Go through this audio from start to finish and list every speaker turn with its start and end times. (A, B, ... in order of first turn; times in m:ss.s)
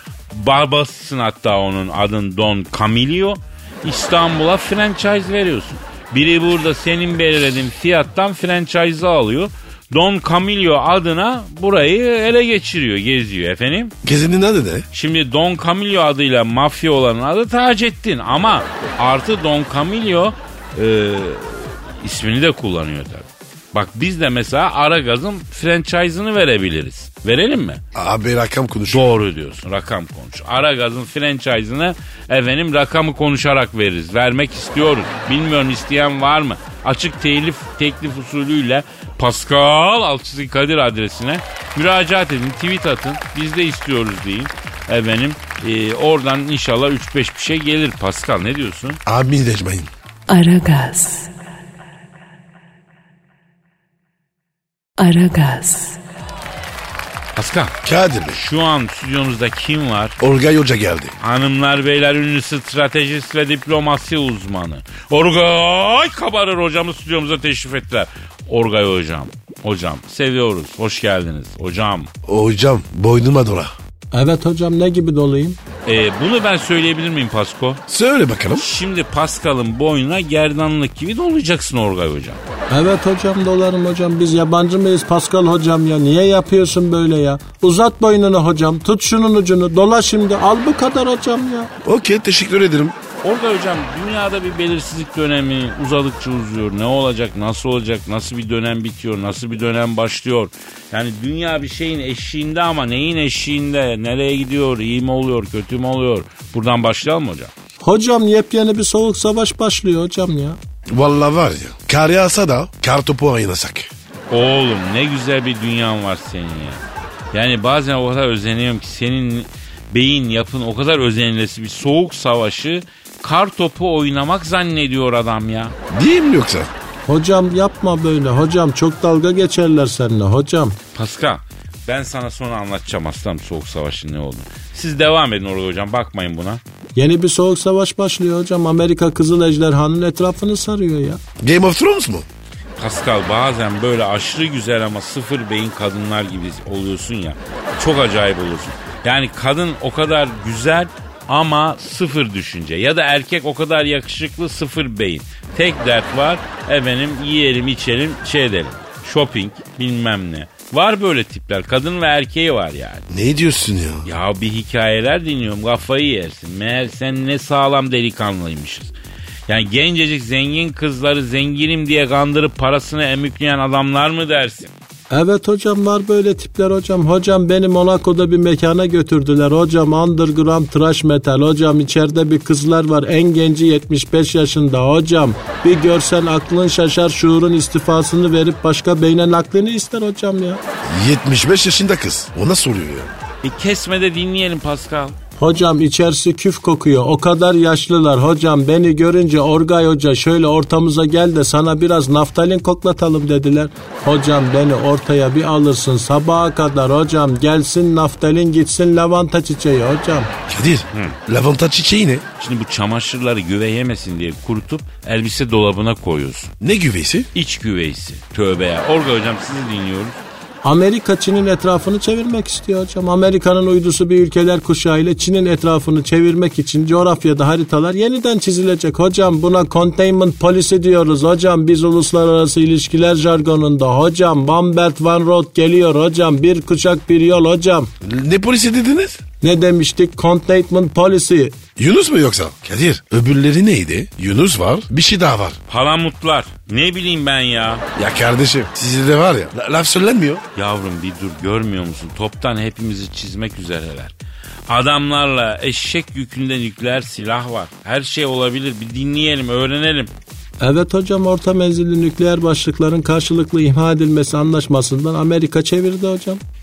0:00.3-0:14.0 A
0:14.0-0:14.9 B
0:14.9-0:27.8 A
0:28.0-0:29.1 B
0:28.9-0:49.0 A
0:49.1-0:49.9 B
0:50.3-0:51.3 C
0:55.0-0:56.0 C
0:57.4-0:57.8 A
0:57.8-0:58.4 B
0:58.3-1:00.2 A
1:00.2-1:01.2 B
1:01.2-1:12.1 A
1:12.2-1:13.7 B
1:14.1-1:15.6 D
1:15.9-1:17.8 A
1:17.9-1:18.6 B
1:18.6-1:22.4 A
1:22.7-1:31.7 D
1:31.8-1:33.0 B
1:33.2-1:47.5 A
1:47.8-1:50.6 D
1:50.9-1:53.9 B
1:54.3-1:56.8 A
1:57.3-2:05.8 A
2:05.9-2:06.7 B
2:07.1-2:10.8 D
2:11.0-2:16.6 A
2:17.0-2:21.2 D
2:21.4-2:22.3 B
2:22.8-2:43.1 A
2:43.1-2:44.1 B
2:44.0-2:48.9 A
2:49.5-2:54.7 A
2:55.1-3:10.6 D
3:10.8-3:13.1 B
3:13.4-3:15.2 A
3:15.4-3:30.3 D
3:30.5-3:32.2 B
3:30.9-3:31.2 A
3:32.4-3:36.5 A
3:36.6-3:37.3 B
3:37.3-3:40.2 A
3:40.6-3:57.9 D
3:58.0-3:59.2 B
3:59.4-4:01.6 D
4:01.8-4:05.6 B
4:05.7-4:07.8 A
4:08.0-4:10.4 B
4:10.6-4:14.1 A
4:14.7-4:20.1 A
4:20.6-4:26.4 D